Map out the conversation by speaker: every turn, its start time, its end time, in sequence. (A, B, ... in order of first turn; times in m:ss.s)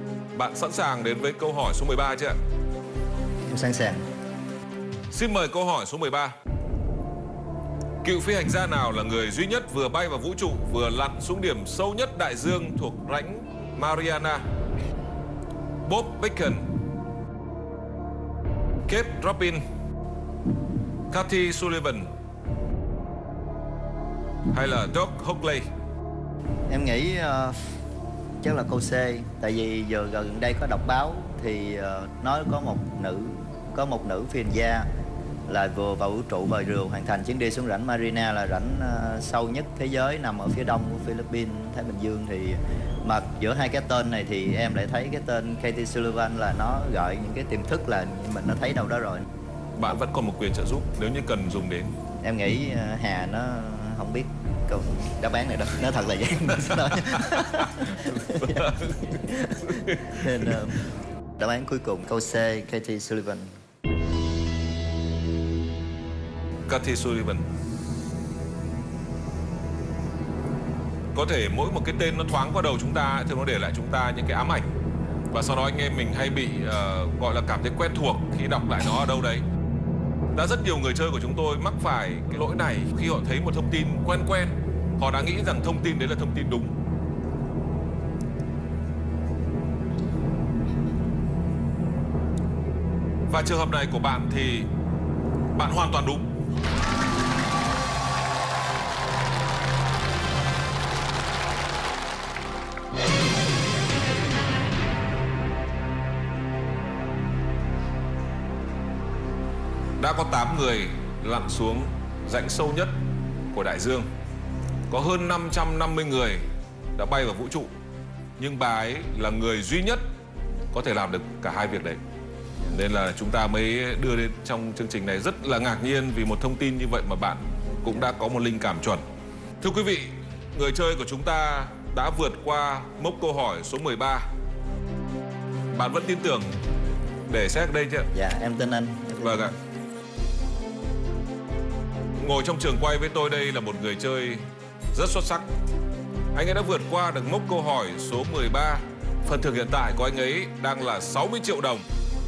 0:00.3-0:02.4 A
0:03.4-0:04.0 B
0:05.1-0:06.3 A
0:08.0-0:14.4 A
0:15.8-0:16.6 A
0:18.9-0:19.6 A
0:21.1-0:22.1 A
0:24.5-0:25.6 A
0:26.7-0:27.7 B
0:28.4-0:34.9 B
0:35.5-0:49.3 B
0:49.8-0:51.9 A
0:52.2-1:00.8 B
0:56.7-1:00.6 A
1:01.4-1:03.5 B
1:06.7-1:07.4 A
1:11.1-1:14.7 A
1:15.3-1:19.4 A
1:20.3-1:26.7 A
1:33.3-1:34.7 A
1:35.5-1:36.3 A
1:50.0-1:53.0 A
1:53.5-1:54.1 A
1:54.9-1:57.7 A
1:58.4-2:00.0 A
2:00.7-2:02.0 A
2:02.7-2:09.0 A
2:09.6-2:14.3 A
2:15.7-2:16.6 A
2:17.2-2:18.1 A
2:18.1-2:19.6 B
2:19.2-2:19.5 A
2:22.2-2:25.4 A
2:26.3-2:31.8 A